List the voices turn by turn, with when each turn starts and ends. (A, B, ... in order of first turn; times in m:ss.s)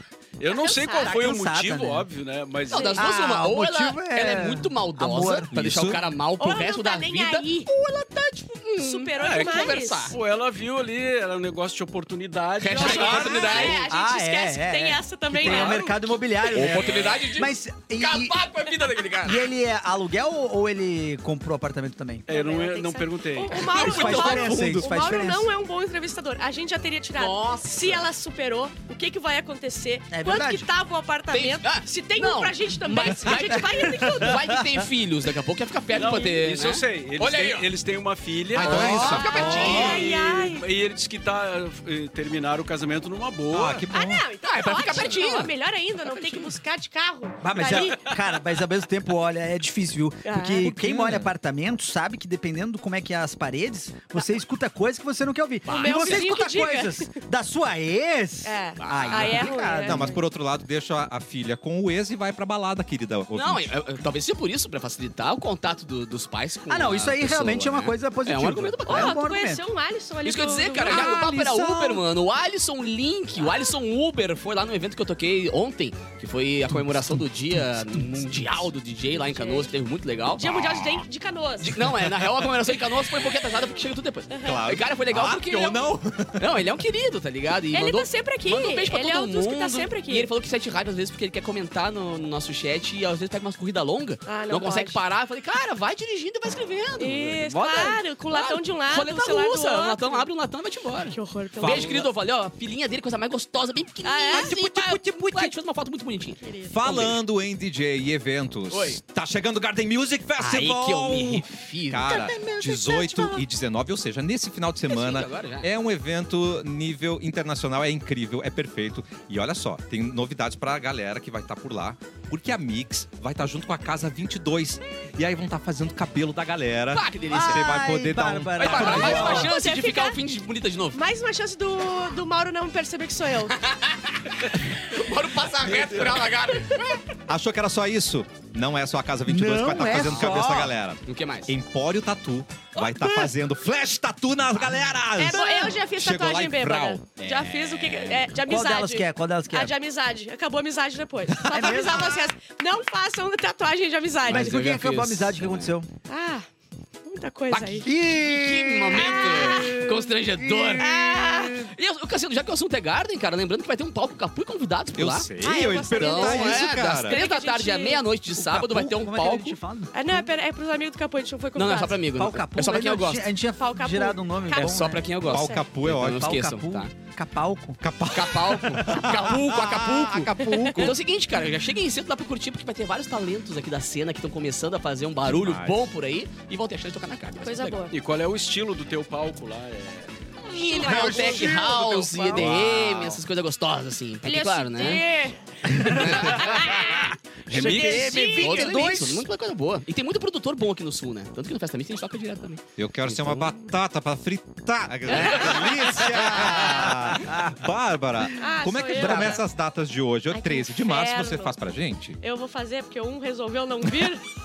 0:00.4-0:03.0 A
0:00.5-0:01.1 B
0:01.0-0:02.1 C
0:02.7-0:03.0 B
0:02.7-0:10.2 D
0:02.9-0:05.5 C
0:05.5-0:06.0 E
0:06.4-0:07.7 B
0:08.8-0:10.1 B
0:09.2-0:13.8 A
0:12.6-0:13.8 D
0:12.8-0:16.1 B
0:12.8-0:18.4 C
0:15.4-0:15.8 A
0:16.5-0:19.4 D
0:19.2-0:22.2 C
0:22.3-0:24.2 A
0:22.3-0:34.6 B
0:23.6-0:24.9 D
0:23.7-0:25.5 C
0:27.1-0:28.1 D
0:30.1-0:30.7 C
0:31.3-0:37.7 D
0:33.7-0:34.6 C
0:35.9-0:43.9 A
0:36.0-0:36.3 B
0:38.5-0:40.0 D
0:38.6-0:39.9 E
0:38.6-0:39.9 C
0:39.2-0:40.7 B
0:43.5-0:44.3 E
0:43.9-0:48.1 B
0:44.4-0:45.5 D
0:46.0-0:46.5 D
0:47.4-1:00.2 C
0:50.2-0:50.9 B
0:50.8-0:51.2 D
0:50.9-0:51.3 E
0:55.6-0:56.3 D
0:55.7-0:57.1 B
0:58.4-1:00.1 B
0:58.8-0:59.5 D
0:59.8-1:03.7 E
1:03.3-1:09.2 D
1:06.7-1:09.6 C
1:08.9-1:11.3 B
1:10.2-1:20.6 D
1:10.8-1:12.0 C
1:19.1-1:19.7 B
1:20.4-1:21.8 B
1:20.4-1:21.0 E
1:21.6-1:47.2 D
1:24.3-1:24.6 B
1:24.4-1:26.6 E
1:27.7-1:30.3 B
1:34.2-1:35.0 B
1:37.0-1:40.3 B
1:37.4-1:38.0 A
1:41.1-1:42.0 B
1:41.6-1:42.1 E
1:44.0-1:45.0 B
1:44.3-1:45.5 E
1:46.4-1:46.8 B
1:46.7-2:09.4 E
1:48.7-1:49.0 D
1:50.4-1:52.3 D
1:52.1-1:53.4 C
1:54.8-1:55.7 D
2:06.9-2:07.9 D
2:07.3-2:09.5 C
2:08.5-2:11.0 D
2:08.7-2:10.2 B
2:10.9-2:13.6 B
2:13.6-2:17.0 D
2:17.3-2:27.0 E
2:19.2-2:20.7 C
2:19.7-2:20.5 D
2:21.1-2:21.5 D
2:22.7-2:23.3 B
2:25.2-2:34.6 B
2:25.3-2:25.8 C
2:27.2-2:28.3 D
2:28.4-2:29.7 C
2:31.3-2:32.3 C
2:31.5-2:31.9 E
2:34.2-2:35.7 D
2:34.3-2:35.9 C
2:36.1-2:36.4 B
2:37.0-2:37.9 B
2:37.5-2:49.6 D
2:37.8-2:41.4 C
2:38.9-2:40.0 B
2:40.8-2:41.7 B
2:45.0-2:47.2 E
2:45.4-2:48.0 B
2:48.4-2:50.3 C
2:49.9-2:52.0 B
2:51.6-2:53.2 D
2:52.2-2:55.0 C
2:53.6-2:55.6 B
2:54.5-2:56.9 D
2:55.2-2:56.3 E
2:56.0-2:57.8 C
2:57.8-3:00.9 E
2:58.1-3:07.8 D
3:00.4-3:00.9 C
3:05.2-3:05.8 E
3:07.4-3:08.0 B
3:07.9-3:11.1 A
3:10.4-3:15.1 D
3:10.7-3:12.7 C
3:10.7-3:11.6 B
3:12.3-3:13.2 E
3:14.2-3:18.9 B
3:15.7-3:19.2 C
3:15.7-3:16.7 D
3:17.5-3:18.5 A
3:18.2-3:23.5 D
3:22.8-3:32.2 E
3:25.1-3:27.0 D
3:25.1-3:25.7 B
3:26.2-3:27.6 C
3:28.4-3:29.4 B
3:28.9-3:29.4 C
3:30.3-3:31.6 B
3:32.2-3:34.2 B